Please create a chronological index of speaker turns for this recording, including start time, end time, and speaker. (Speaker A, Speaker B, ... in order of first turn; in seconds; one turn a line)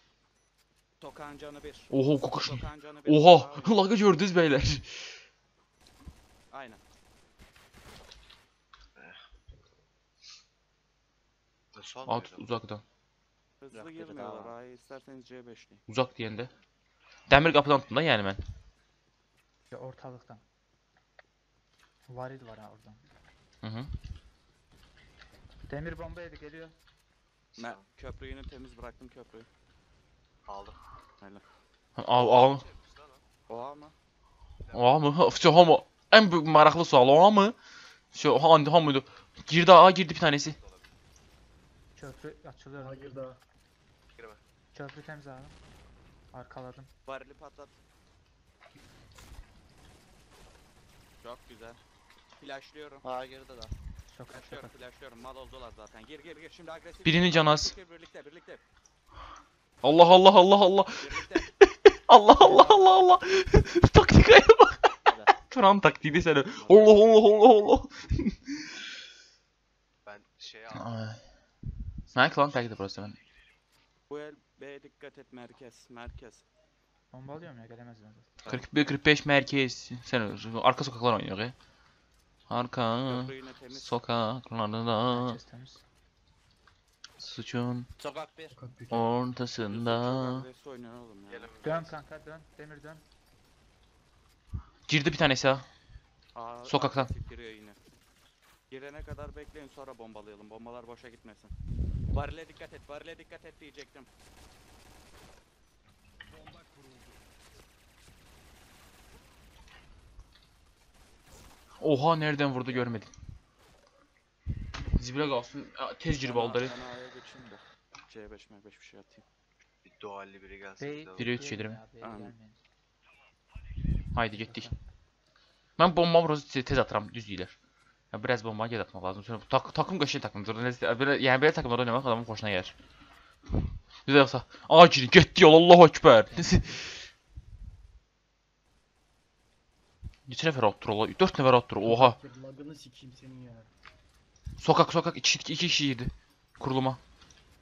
Speaker A: 1.0-3.8
Speaker B: 1.9-5.1
Speaker A: 6.5-6.8
Speaker C: 11.7-12.5
Speaker B: 12.1-12.8
Speaker A: 13.6-15.8
Speaker D: 13.7-14.6
Speaker B: 15.9-16.5
Speaker B: 17.3-18.4
Speaker E: 19.7-20.4
Speaker E: 22.1-23.0
Speaker B: 23.6-23.9
Speaker E: 25.7-26.8
Speaker C: 27.5-27.8
Speaker A: 27.6-29.5
Speaker C: 30.5-30.8
Speaker B: 32.0-32.7
Speaker C: 32.1-33.2
Speaker A: 33.5-34.0
Speaker C: 34.6-35.5
Speaker B: 34.7-37.5
Speaker B: 38.1-40.6
Speaker C: 40.5-40.9
Speaker E: 42.0-43.2
Speaker F: 42.8-43.4
Speaker C: 44.2-44.4
Speaker E: 44.7-45.6
Speaker E: 46.3-46.9
Speaker A: 47.0-47.8
Speaker A: 51.2-51.8
Speaker A: 52.4-53.0
Speaker D: 53.0-53.7
Speaker E: 54.1-54.7
Speaker A: 54.3-58.6
Speaker B: 57.0-57.8
Speaker B: 59.8-68.7
Speaker A: 60.9-61.5
Speaker E: 62.4-62.9
Speaker D: 65.1-65.3
Speaker A: 66.5-66.9
Speaker C: 70.0-70.9
Speaker B: 70.7-71.2
Speaker B: 72.1-73.2
Speaker A: 74.1-76.4
Speaker E: 77.1-78.4
Speaker B: 78.4-81.5
Speaker B: 82.5-85.4
Speaker A: 83.1-84.0
Speaker E: 85.1-85.8
Speaker B: 87.2-87.9
Speaker D: 88.0-88.6
Speaker F: 88.5-89.1
Speaker B: 88.9-90.5
Speaker A: 89.7-91.5
Speaker C: 91.3-92.0
Speaker E: 91.6-93.0
Speaker B: 94.9-95.7
Speaker A: 96.3-97.8
Speaker B: 96.7-97.1
Speaker A: 98.7-101.5
Speaker A: 102.1-104.1
Speaker B: 111.8-113.1
Speaker B: 114.9-116.8
Speaker A: 116.2-119.2
Speaker C: 119.8-121.4
Speaker E: 120.8-122.6
Speaker B: 121.2-121.8
Speaker A: 122.0-122.3
Speaker B: 124.1-124.7
Speaker E: 124.2-124.8
Speaker B: 125.8-127.5
Speaker B: 128.1-132.7
Speaker B: 134.1-137.0
Speaker E: 136.2-136.9
Speaker B: 140.3-142.2
Speaker F: 141.8-143.7
Speaker B: 144.6-147.0